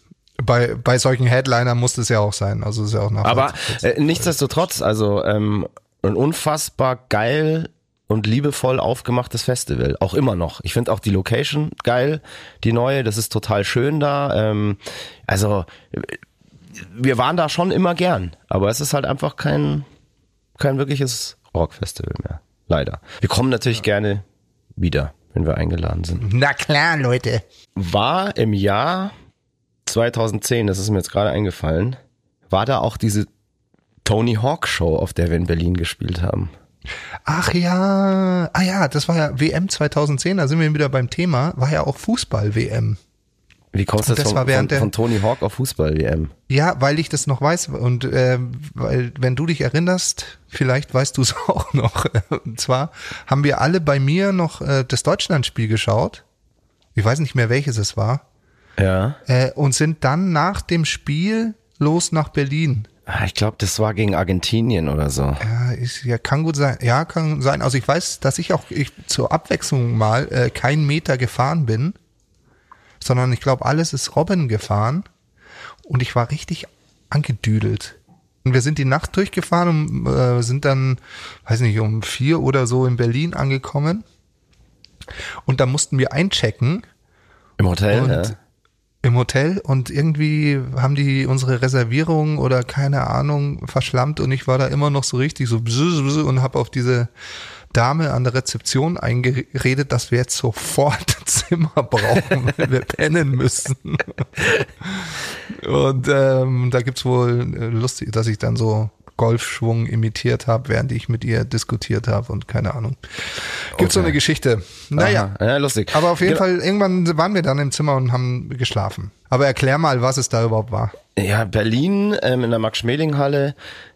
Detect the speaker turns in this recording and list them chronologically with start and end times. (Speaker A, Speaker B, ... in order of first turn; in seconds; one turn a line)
Speaker A: 0.4-4.4
Speaker B: 3.2-16.2
Speaker B: 16.7-19.9
Speaker B: 20.6-24.2
Speaker B: 24.8-26.2
Speaker A: 26.2-27.4
Speaker B: 27.8-29.1
Speaker B: 29.9-32.0
Speaker B: 32.5-33.3
Speaker B: 34.0-36.5
Speaker A: 37.3-43.0
Speaker B: 43.7-46.3
Speaker A: 44.0-44.9
Speaker A: 46.5-56.2
Speaker A: 56.9-58.2
Speaker B: 58.8-59.2
Speaker A: 59.2-62.9
Speaker B: 63.1-65.4
Speaker A: 65.4-72.0
Speaker A: 73.0-75.0
Speaker A: 75.9-84.0
Speaker A: 85.5-86.8
Speaker B: 87.6-88.3
Speaker A: 87.9-88.3
Speaker A: 89.0-97.1
Speaker A: 97.7-113.0
Speaker A: 113.6-115.3
Speaker B: 113.8-114.2
Speaker B: 115.0-116.4
Speaker A: 115.9-120.9
Speaker B: 121.2-123.5